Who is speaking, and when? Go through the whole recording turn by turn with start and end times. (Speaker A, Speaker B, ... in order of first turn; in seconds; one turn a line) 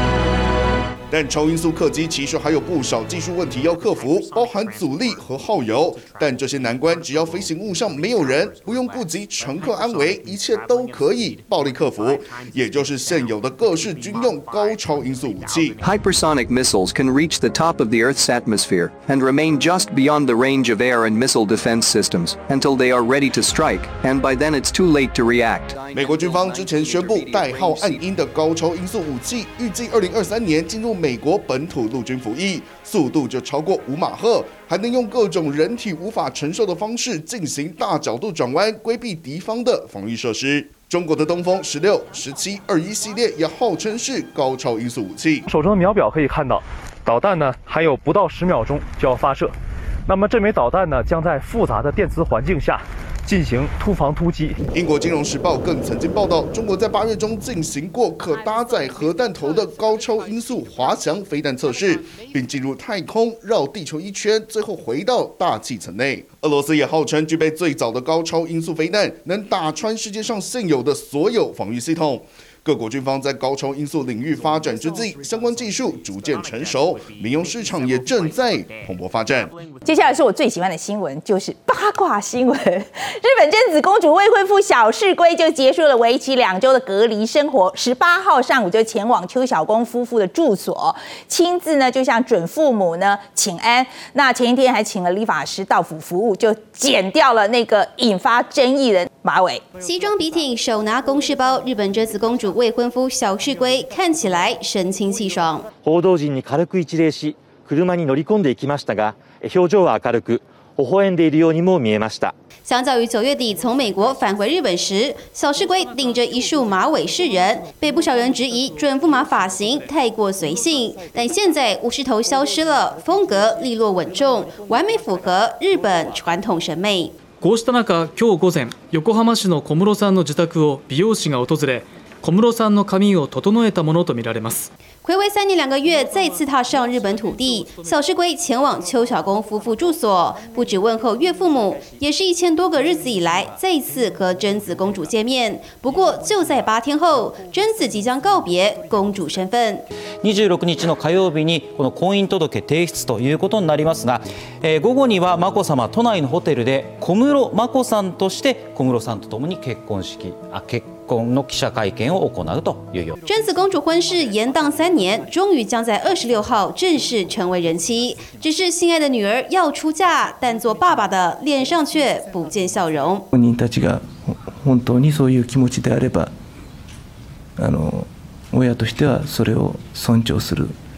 Speaker A: 1.1-15.8
Speaker B: 15.8-25.8
Speaker A: 25.9-45.5
Speaker C: 45.5-49.5
Speaker C: 50.1-54.6
Speaker A: 54.7-79.5
Speaker D: 79.8-99.6
Speaker E: 99.8-105.7
Speaker C: 105.9-112.3
Speaker E: 112.7-127.2
Speaker F: 127.4-134.7
Speaker E: 135.0-149.8
Speaker G: 150.2-163.2
Speaker E: 163.2-173.2
Speaker H: 173.3-176.4
Speaker H: 177.6-180.8